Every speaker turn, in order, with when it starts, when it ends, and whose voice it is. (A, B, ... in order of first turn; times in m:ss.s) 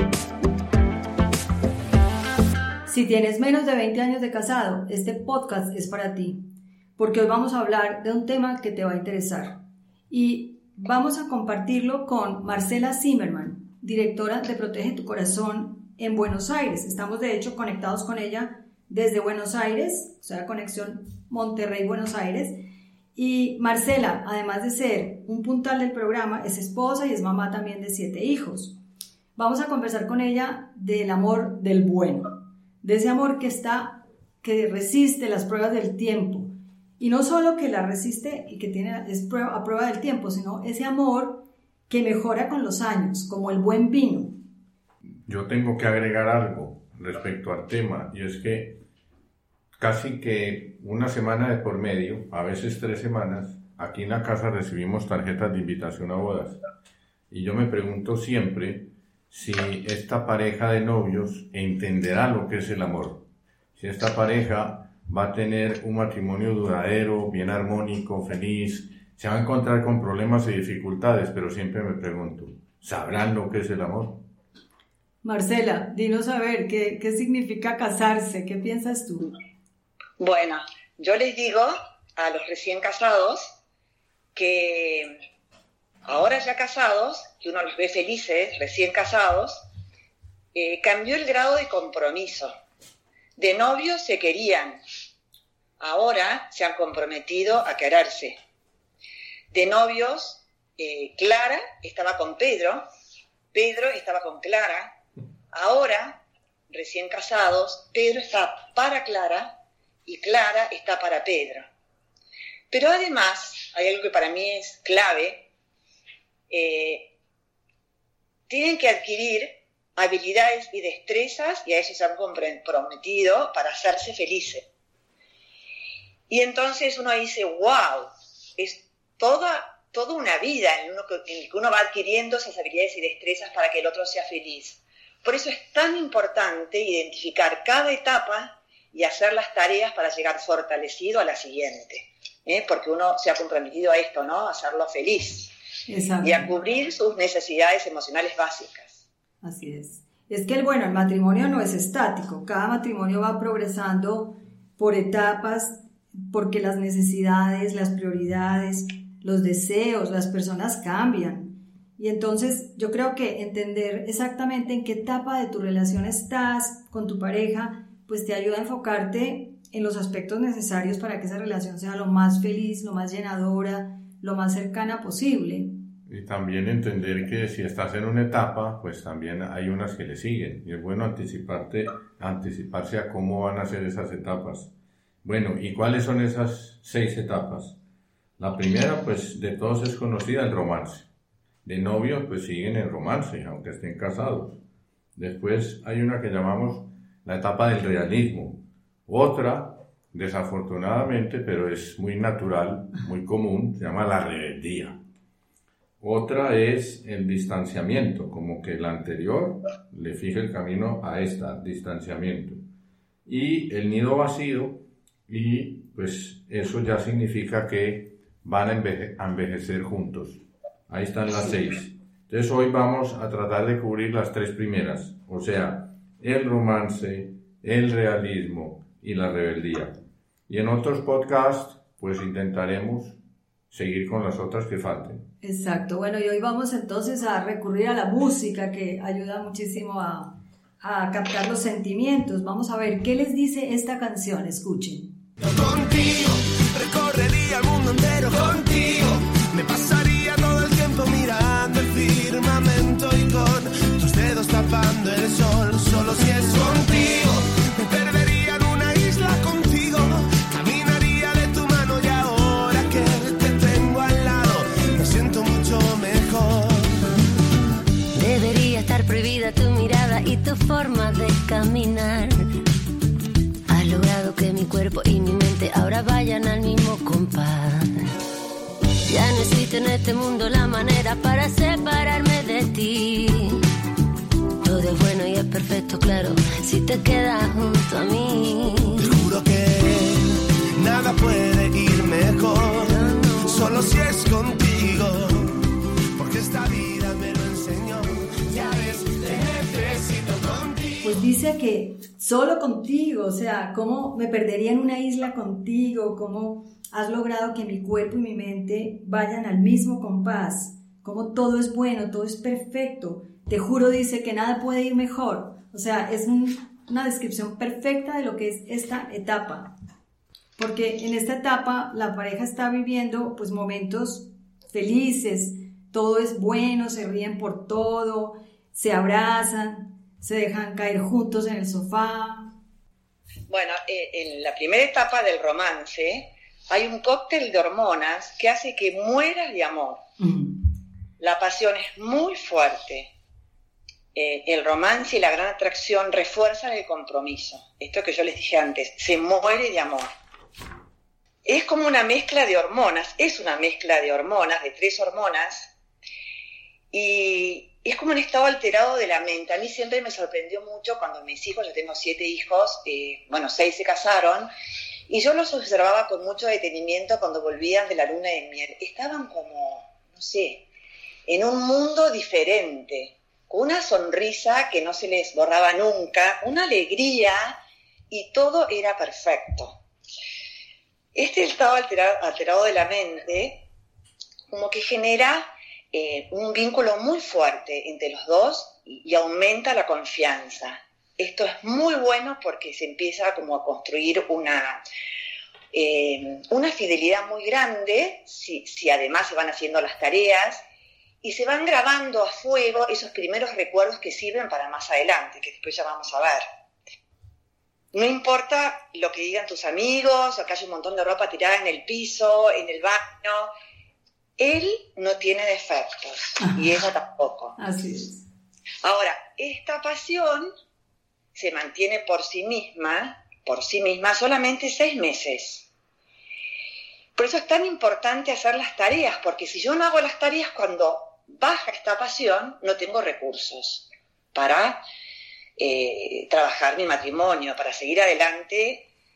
0:02.9-0:06.4 A
0:07.0-0:09.6 A
0:10.1-0:22.6 A
0:23.2-0:28.7 A
0:29.4-0:32.3 A
0:32.8-0:44.3 A
0:45.2-0:48.8 B
0:49.8-0:56.6 B
0:57.3-1:03.2 B
1:03.8-1:14.2 B
1:15.2-1:19.3 A
1:20.2-1:23.5 C
1:24.3-1:25.2 C
1:26.0-1:29.6 C
1:30.6-1:32.5 C
1:33.4-1:34.8 C
1:35.8-1:38.4 C
1:39.5-1:42.8 C
1:43.5-1:44.9 C
1:45.5-1:46.2 C
1:46.7-1:49.5 C
1:50.1-1:51.7 C
1:52.7-1:55.4 C
1:56.5-1:57.1 C
1:58.5-2:04.6 C
2:06.3-2:25.5 C
2:25.9-2:26.4 A
2:26.2-2:29.0 C
2:29.4-2:55.7 A
2:56.1-3:04.7 B
3:05.2-3:07.8 B
3:08.4-3:11.1 B
3:11.6-3:14.6 B
3:15.2-3:25.0 B
3:26.0-3:32.6 B
3:33.2-3:50.0 B
3:50.5-3:53.2 B
3:53.7-3:55.2 B
3:55.4-4:05.1 A
4:05.4-4:27.1 D
4:28.2-4:32.4 E
4:33.7-4:38.0 E
4:39.1-4:43.6 E
4:44.6-4:49.1 E
4:49.0-5:01.2 D
5:01.0-5:19.7 A
5:20.6-5:32.5 A
5:33.5-5:40.0 C
5:40.2-5:40.5 A
5:41.2-5:43.1 C
5:44.2-5:50.1 C
5:51.5-5:55.7 C
5:56.9-6:04.5 C
6:05.1-6:10.6 C
6:11.3-6:17.6 C
6:18.1-6:19.8 C
6:21.2-6:23.6 C
6:24.5-6:34.8 C
6:35.7-6:40.6 C
6:41.2-6:46.4 C
6:47.9-6:53.5 C
6:54.4-6:57.6 C
6:56.4-6:56.7 A
6:57.6-6:58.2 A
6:58.8-7:00.5 C
7:01.4-7:05.7 C
7:07.2-7:14.8 C
7:15.6-7:18.8 C